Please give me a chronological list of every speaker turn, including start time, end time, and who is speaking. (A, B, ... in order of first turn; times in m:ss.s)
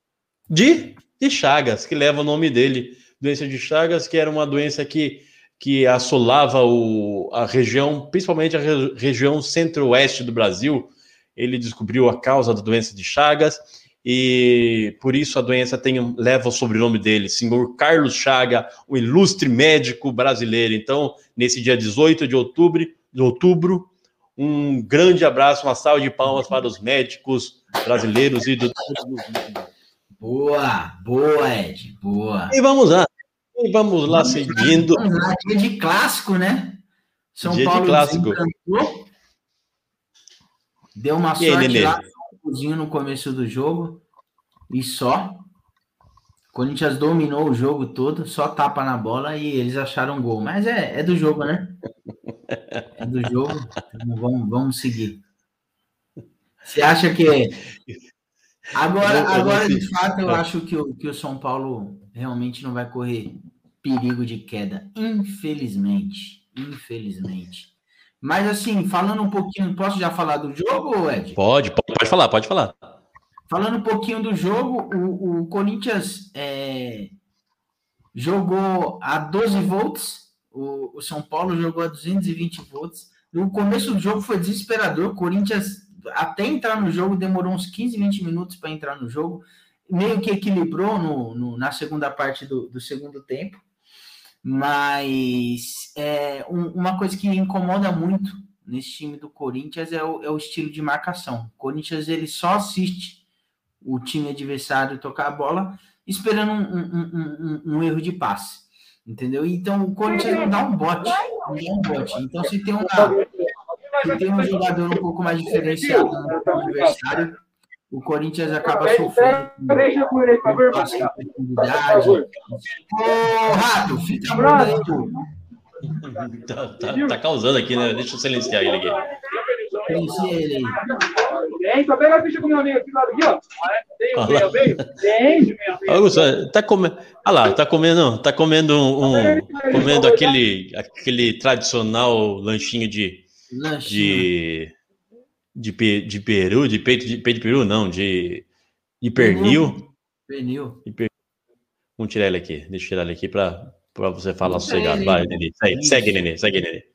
0:00.5-0:29.7 A
0:30.2-0:32.6 B
0:32.5-0:35.0 A
0:34.1-0:36.8 B
0:37.3-0:39.1 B
0:37.4-0:38.4 A
0:41.0-0:44.0 B
0:41.4-0:42.0 A
0:44.7-0:45.5 B
0:46.5-0:51.8 B
0:53.0-0:55.2 B
0:56.6-0:57.6 B
0:58.8-1:11.4 B
0:59.0-1:00.4 A
1:11.4-1:12.9 A
1:13.5-1:17.1 B
1:18.1-1:33.6 B
1:34.4-1:43.2 B
1:43.8-1:53.2 B
1:54.0-1:57.4 B
1:57.9-2:05.2 B
2:05.9-2:09.0 A
2:09.8-2:10.8 B
2:11.6-2:13.4 C
2:14.2-2:15.0 A
2:15.1-2:15.8 C
2:15.8-2:23.2 A
2:23.5-2:24.3 B
2:23.9-2:24.7 A
2:25.6-2:28.4 A
2:29.0-2:29.8 A
2:29.2-2:30.8 B
2:30.8-2:31.1 A
2:32.0-2:36.8 A
2:34.4-2:36.2 B